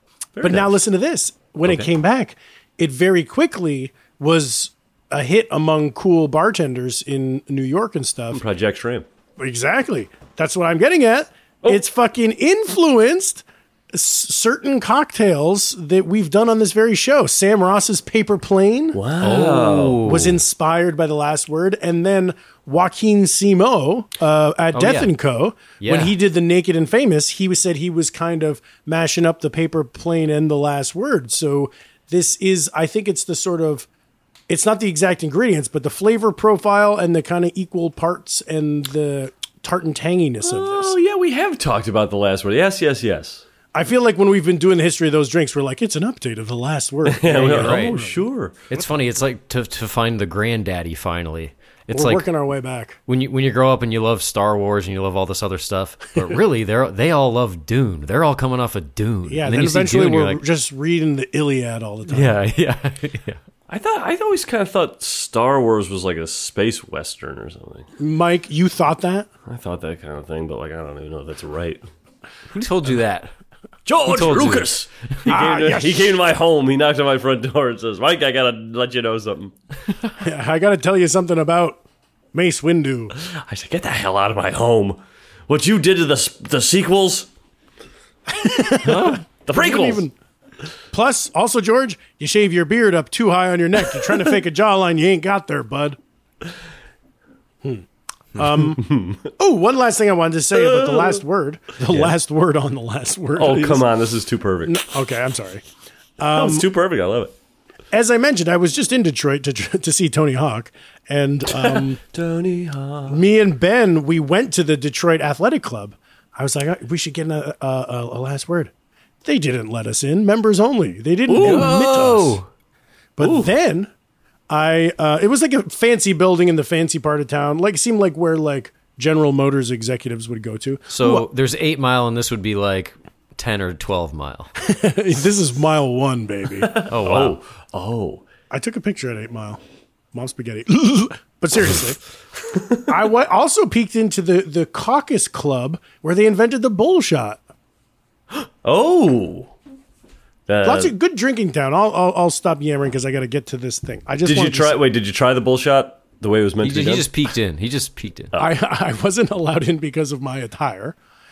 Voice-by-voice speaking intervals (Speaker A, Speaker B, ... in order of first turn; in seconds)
Speaker A: 0.4-0.8, 1.6-1.9, 8.3-9.1, 18.9-20.1, 40.4-43.5, 47.0-48.6, 63.7-67.9, 69.5-71.8, 73.9-79.5, 83.2-87.3, 89.5-90.1, 98.6-99.3, 100.5-101.2, 101.9-102.2, 103.4-104.8, 106.3-107.3, 111.5-113.2, 121.3-122.3, 123.2-123.5, 136.6-138.3, 148.6-149.5, 150.5-150.9, 154.2-157.1
Speaker B: 0.4-8.4, 9.4-19.0, 20.0-33.9, 34.5-41.0, 43.7-48.2, 51.9-53.0, 59.3-62.4, 68.0-69.3, 75.3-76.1, 80.2-81.8, 82.3-83.2, 88.3-90.1, 90.9-96.0, 98.4-103.8, 104.7-105.6, 106.2-106.7, 107.9-112.0, 113.1-118.7, 119.2-122.4, 123.2-123.9, 124.5-131.3, 134.7-136.8, 138.5-139.6, 140.1-142.0, 142.8-147.4, 150.6-154.8, 158.4-161.0
Speaker C: 19.2-20.4, 24.7-25.1, 25.8-26.1, 47.4-48.0, 48.7-52.3, 53.1-60.4, 62.1-63.4, 72.5-73.3, 74.0-74.8, 88.8-89.2, 121.4-122.5, 130.9-134.5, 136.9-137.4, 156.6-158.3